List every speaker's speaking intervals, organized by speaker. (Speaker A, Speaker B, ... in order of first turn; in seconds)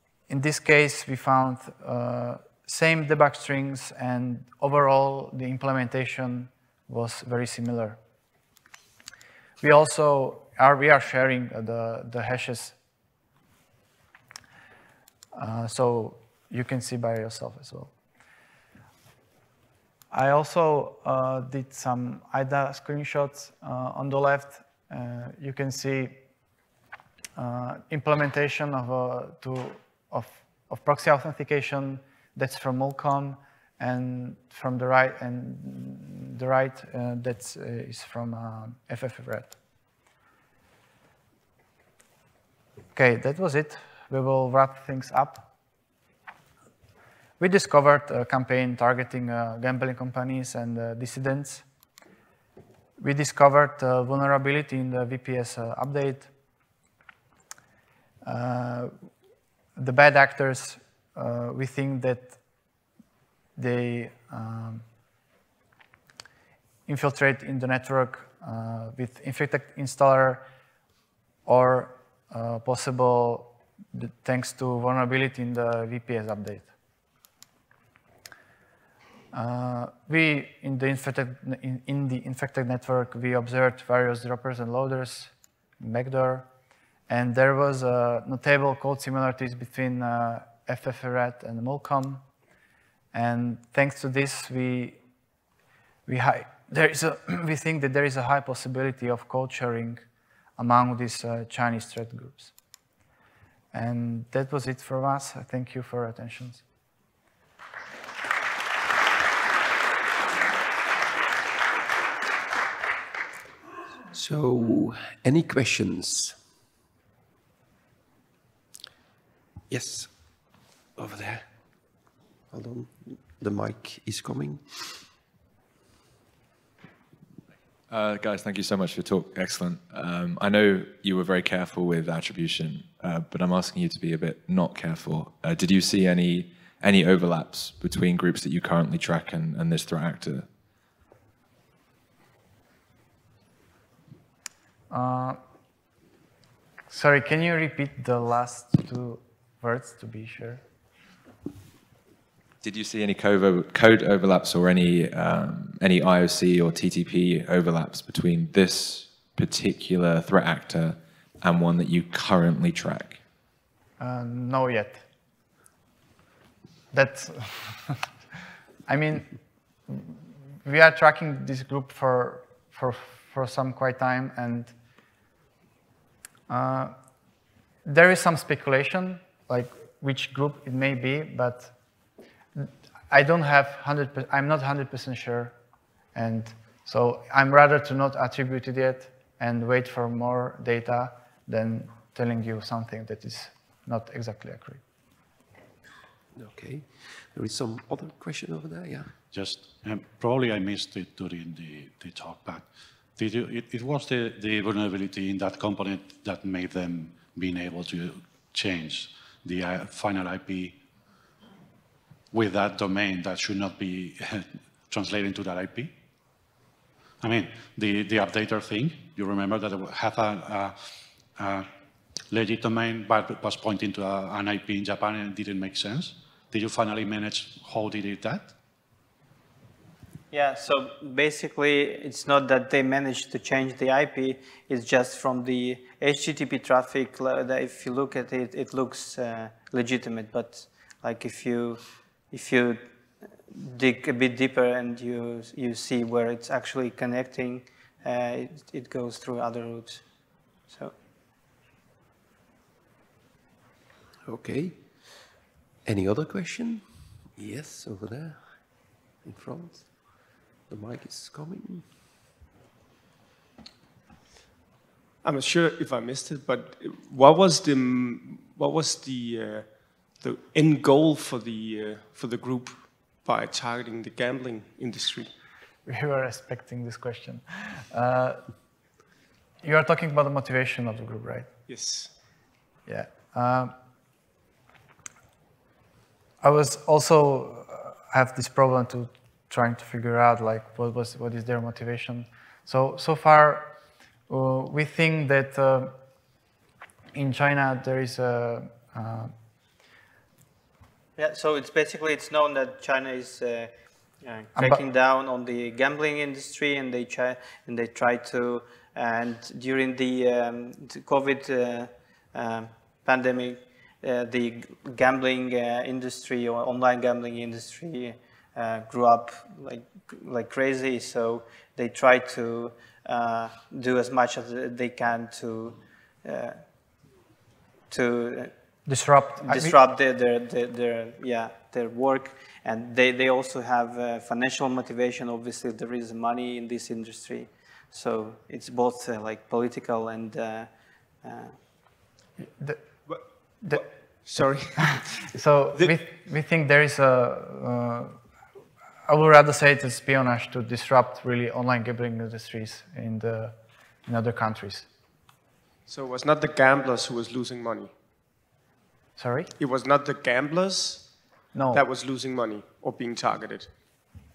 Speaker A: 0.3-8.0, 9.6-12.7, 15.3-17.9, 20.1-26.2, 27.4-39.5, 42.9-45.5, 47.4-51.6, 53.0-56.3, 58.2-58.9, 59.8-62.4, 63.5-64.8, 66.9-70.4, 71.4-76.7, 79.3-86.5, 87.1-92.2, 93.1-95.0, 96.0-100.0, 100.6-102.5, 103.7-106.6, 144.9-145.4, 146.9-150.6, 164.0-165.0, 166.9-168.0, 168.9-169.3, 169.9-174.7, 176.5-176.9, 177.8-181.7, 182.5-185.5, 186.1-194.8, 275.8-278.4, 279.6-281.5, 282.9-283.7, 286.4-293.7, 294.3-295.9, 297.1-299.3, 304.6-304.8, 328.9-329.7, 342.4-342.8, 343.6-343.9, 344.8-348.2, 349.1-353.5, 354.1-354.9, 359.2-359.5, 361.5-361.8
Speaker B: 114.1-116.4, 119.7-120.4, 120.9-121.5, 122.5-125.1, 196.3-199.1, 254.2-255.3, 255.8-258.6, 259.2-261.9
Speaker C: 127.9-140.5, 152.6-163.2
Speaker D: 199.3-210.8, 212.3-215.9, 217.2-220.8, 221.3-221.7, 222.3-228.5
Speaker E: 230.3-242.8, 243.5-250.0, 301.2-326.6, 327.9-328.5, 329.4-340.7, 341.2-341.6
Speaker F: 265.2-269.7, 270.2-275.3, 281.7-282.1, 343.1-345.2, 355.9-357.9, 359.6-361.1, 361.7-363.7